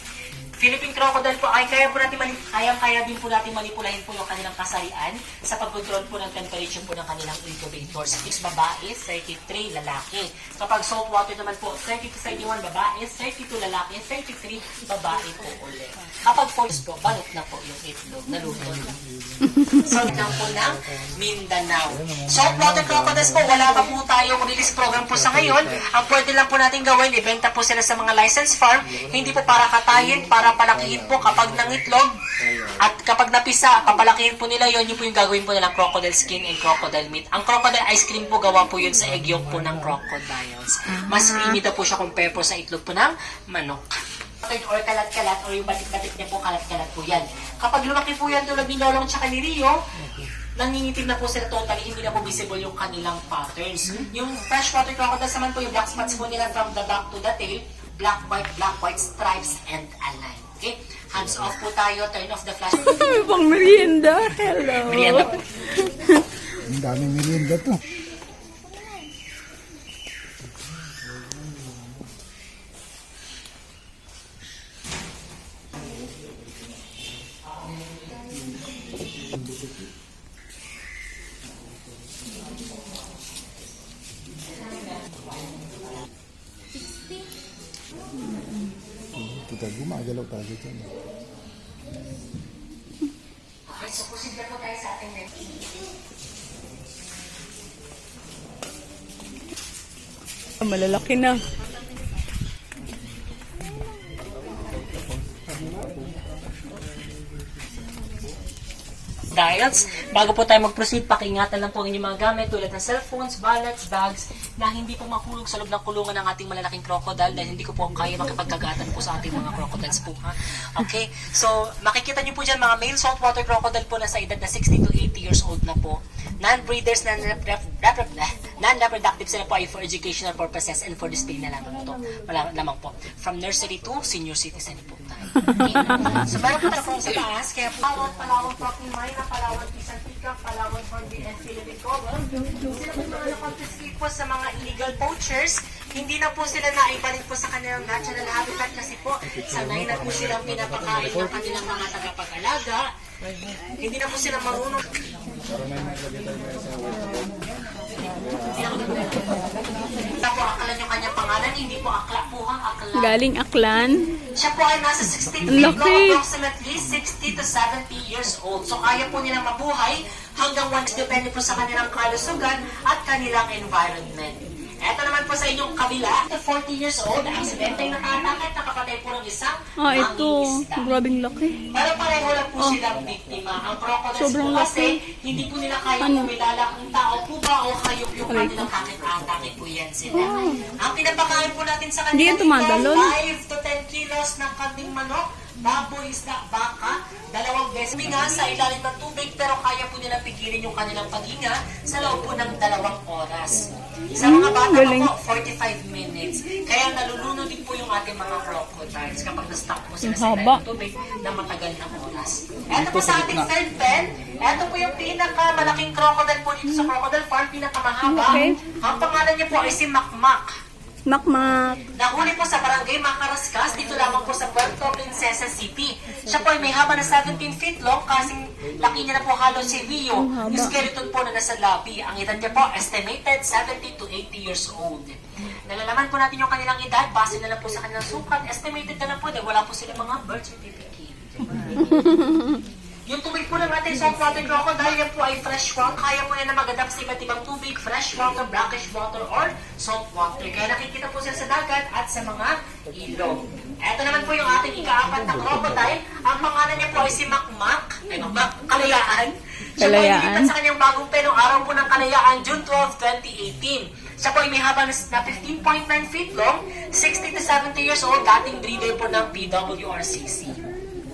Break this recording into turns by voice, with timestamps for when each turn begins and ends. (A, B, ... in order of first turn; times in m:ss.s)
0:00.5-0:19.0 A
0:19.5-0:19.8 B
0:19.8-0:32.1 A
0:32.8-0:43.8 A
0:40.9-0:41.5 B
0:44.4-0:49.8 A
0:50.6-1:03.4 A
1:02.8-1:06.2 B
1:04.8-1:05.4 A
1:06.6-1:07.8 C
1:17.5-1:18.3 A
1:19.3-1:19.8 C
1:24.4-1:25.6 A
1:28.2-1:28.7 B
1:29.2-1:30.9 C
1:33.7-1:35.5 A
1:40.6-1:41.4 B
1:49.3-2:32.9 A
2:15.5-2:16.2 B
2:22.3-2:22.7 B
2:33.6-2:34.9 A
2:35.8-2:37.0 C
2:38.4-2:43.1 A
2:42.9-2:44.0 B
2:44.4-3:01.0 A
2:45.5-2:46.1 B
2:59.8-3:01.6 B
3:01.7-3:40.5 A
3:04.2-3:05.0 B
3:06.0-3:06.3 B
3:08.3-3:08.6 B
3:10.1-3:10.6 B
3:12.1-3:13.1 B
3:24.2-3:25.1 B
3:30.0-3:30.6 B
3:38.0-3:38.6 B
3:41.1-3:41.9 B
3:42.0-4:02.2 A
3:50.1-3:50.8 B
4:01.8-4:02.6 B
4:03.1-4:30.6 A
4:19.8-4:20.5 B